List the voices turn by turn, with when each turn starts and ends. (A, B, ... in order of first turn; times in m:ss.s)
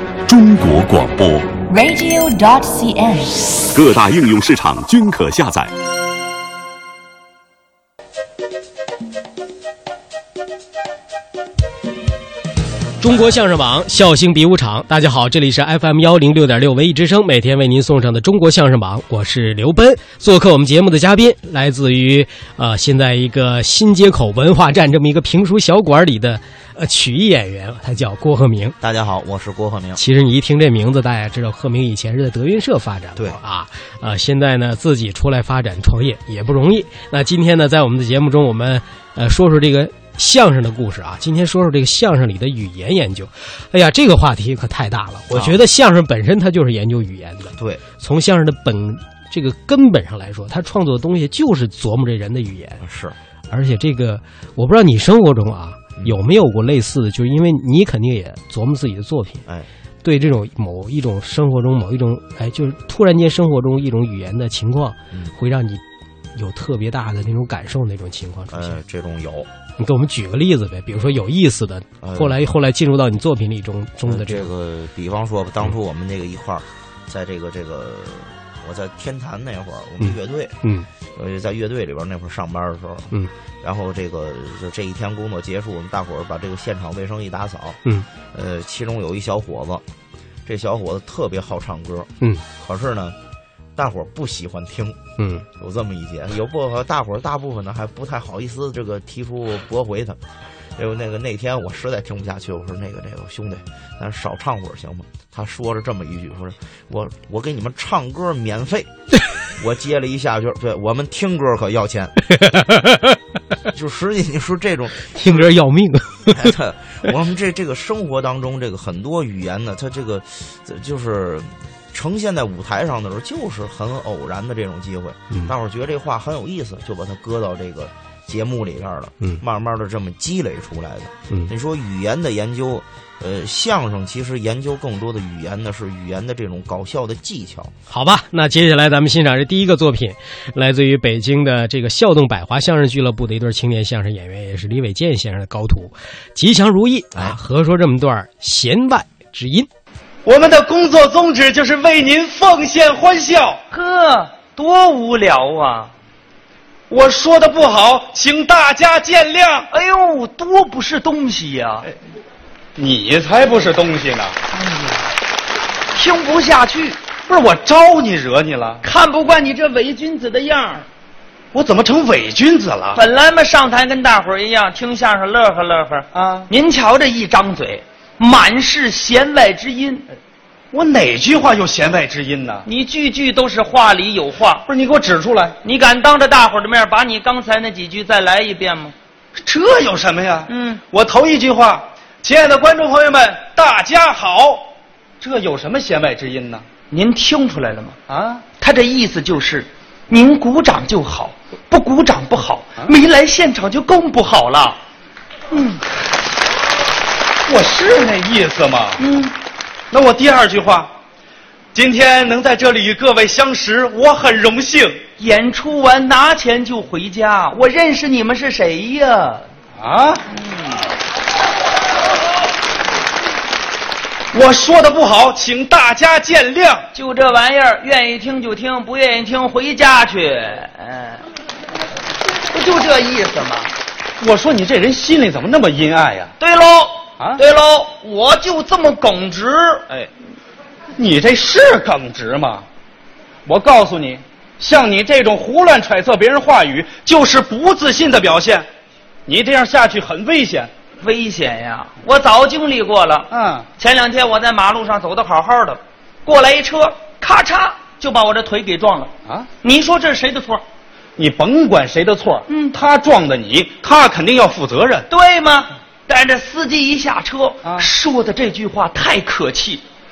0:00.3-0:01.6 A
0:01.7-0:03.7 B
0:03.7-0:05.7 A
0:13.0-0:28.8 C
0:28.8-0:30.0 D
0:30.0-0:52.8 C
0:45.3-0:45.6 D
0:47.5-0:47.8 D
0:52.8-0:53.2 D
0:53.5-0:59.4 C
1:00.0-1:05.8 C
1:06.4-1:08.8 C
1:08.5-1:09.5 D
1:09.8-1:14.5 C
1:12.0-1:12.4 D
1:14.1-1:20.6 D
1:20.0-1:20.9 C
1:21.1-1:27.8 D
1:28.3-1:29.8 D
1:30.5-1:33.2 D
1:33.8-1:35.0 D
1:35.2-1:35.5 C
1:35.6-1:40.2 D
1:40.8-1:48.9 D
1:49.6-1:52.2 D
1:52.3-1:53.1 C
1:53.7-1:55.4 D
1:55.1-1:56.5 C
1:56.3-2:17.7 D
2:17.9-2:29.7 C
2:30.2-2:33.6 E
2:33.7-2:35.9 F
2:36.9-2:39.7 E
2:39.7-2:41.9 F
2:42.8-2:44.4 E
2:44.5-2:45.0 F
2:46.0-2:47.0 F
2:47.3-2:48.8 E
2:48.8-2:50.9 F
2:51.5-2:53.0 E
2:53.0-3:00.1 F
2:56.2-2:56.5 E
3:00.7-3:02.7 E
3:02.7-3:04.6 F
3:04.7-3:05.6 E
3:05.6-3:08.9 F
3:09.4-3:14.7 E
3:10.5-3:10.8 F
3:15.2-3:16.6 E
3:16.9-3:18.0 F
3:18.1-3:18.4 E
3:18.6-3:24.8 F
3:25.5-3:25.8 F
3:27.5-3:29.0 E
3:29.0-3:29.3 F
3:29.9-3:30.9 E
3:31.7-3:35.0 E
3:35.2-3:39.5 F
3:39.8-3:40.2 E
3:44.3-3:46.9 E
3:46.9-3:51.2 F
3:52.5-3:53.7 F
3:54.2-3:56.3 E
3:56.4-3:59.8 F
4:01.0-4:02.6 E
4:03.5-4:08.7 E
4:09.3-4:10.7 E
4:11.0-4:20.6 F
4:13.3-4:13.6 E
4:21.2-4:25.1 E
4:25.1-4:29.8 F